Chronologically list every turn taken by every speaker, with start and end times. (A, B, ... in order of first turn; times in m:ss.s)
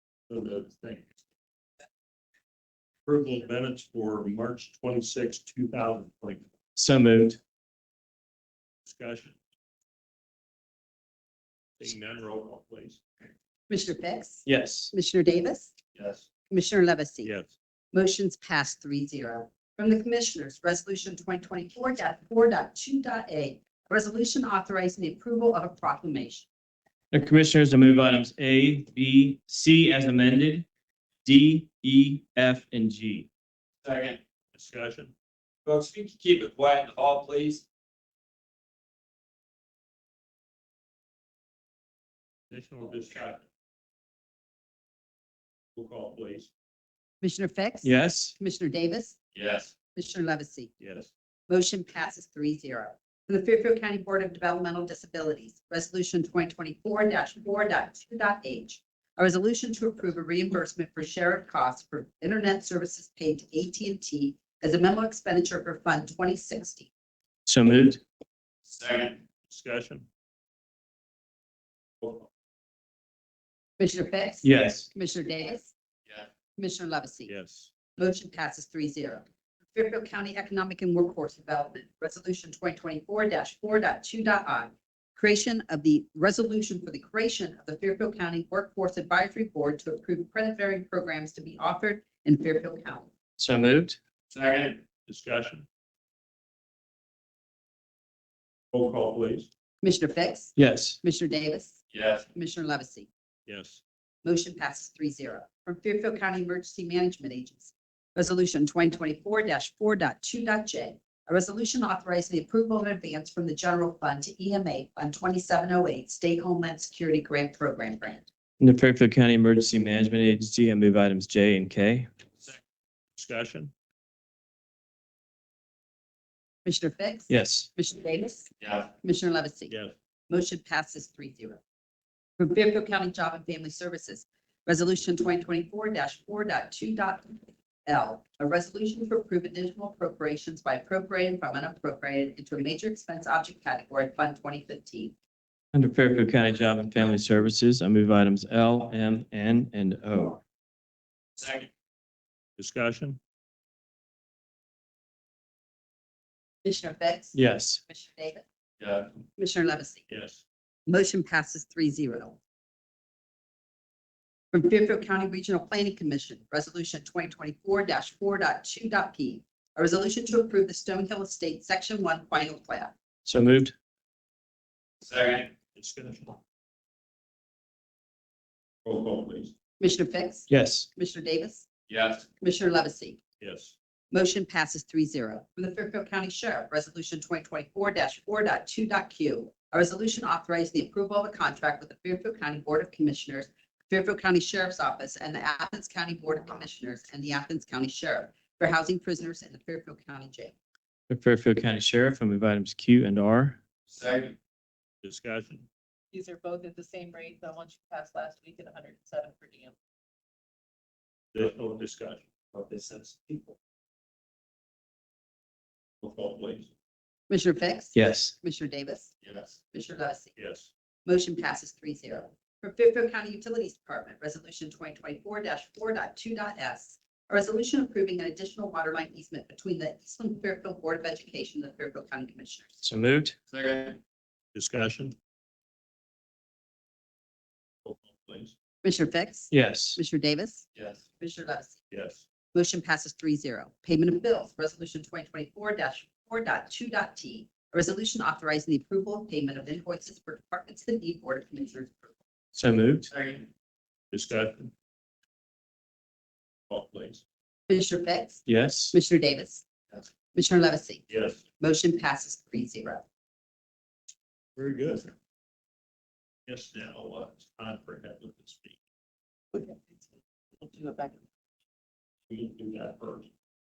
0:00.3-0:01.0 A
0:03.0-0:06.4 A
0:06.8-0:07.4 B
0:08.8-0:09.3 A
0:11.8-0:13.0 A
0:13.7-0:15.7 C
0:14.4-0:14.9 B
0:16.5-0:17.3 C
0:17.2-0:17.5 A
0:17.9-0:26.5 C
0:27.1-0:30.6 B
0:31.2-0:33.3 B
0:33.8-0:34.2 D
0:34.5-0:35.1 A
0:35.6-0:37.6 D
0:42.5-0:43.4 A
0:45.8-0:46.5 A
0:47.2-0:49.2 C
0:47.8-0:48.4 B
0:49.3-0:49.7 D
0:49.9-0:50.7 C
0:50.8-0:51.1 A
0:51.5-1:06.9 C
1:07.4-1:08.0 B
1:08.6-1:09.2 D
1:09.5-1:10.0 A
1:13.8-1:15.7 C
1:14.4-1:14.9 B
1:16.6-1:17.3 C
1:17.2-1:17.7 A
1:18.0-1:33.1 C
1:33.4-1:34.0 B
1:34.3-1:34.8 D
1:35.0-1:35.6 A
1:38.7-1:39.5 A
1:39.8-1:41.8 C
1:40.6-1:41.0 B
1:41.9-1:42.2 D
1:42.3-1:43.1 C
1:43.5-1:43.8 A
1:44.2-1:58.3 C
1:58.6-2:02.1 B
2:03.2-2:03.7 A
2:06.6-2:09.7 C
2:07.3-2:07.7 B
2:08.6-2:08.9 D
2:09.7-2:09.9 A
2:10.3-2:11.6 C
2:12.4-2:25.1 C
2:25.7-2:30.4 B
2:31.4-2:31.7 D
2:32.6-2:33.2 A
2:36.6-2:38.4 C
2:37.3-2:37.8 B
2:38.8-2:39.1 D
2:39.4-2:40.0 C
2:40.1-2:40.4 A
2:40.9-2:42.4 C
2:44.5-2:52.9 C
2:53.2-2:53.7 B
2:55.0-2:55.5 D
2:55.7-2:56.4 A
2:58.8-2:59.5 A
2:59.8-3:01.7 C
3:00.5-3:00.9 B
3:01.9-3:02.2 D
3:02.4-3:03.2 C
3:03.4-3:03.7 A
3:04.1-3:20.5 C
3:21.1-3:23.6 B
3:23.9-3:24.4 D
3:25.0-3:25.6 A
3:26.1-3:29.7 E
3:31.3-3:32.2 A
3:32.5-3:33.5 D
3:36.0-3:36.7 A
3:37.3-3:39.1 C
3:37.9-3:38.3 B
3:39.2-3:39.5 D
3:39.7-3:40.3 C
3:40.4-3:40.7 A
3:41.0-3:52.8 C
3:52.8-3:53.4 B
3:53.5-3:54.0 D
3:54.5-3:55.1 A
3:57.8-3:58.5 A
3:58.8-4:00.6 C
3:59.5-4:00.0 B
4:01.2-4:01.8 C
4:01.9-4:02.2 A
4:02.5-4:12.1 C
4:12.5-4:13.1 B
4:13.1-4:13.5 D
4:14.1-4:14.7 A
4:16.7-4:17.2 A
4:17.7-4:19.6 C
4:18.4-4:18.9 B
4:20.3-4:21.0 C
4:21.1-4:21.4 A
4:21.6-4:23.0 C
4:24.6-4:25.1 A
4:26.5-4:28.7 A
4:29.5-4:29.8 E
4:30.6-4:31.2 E
4:32.3-4:33.3 A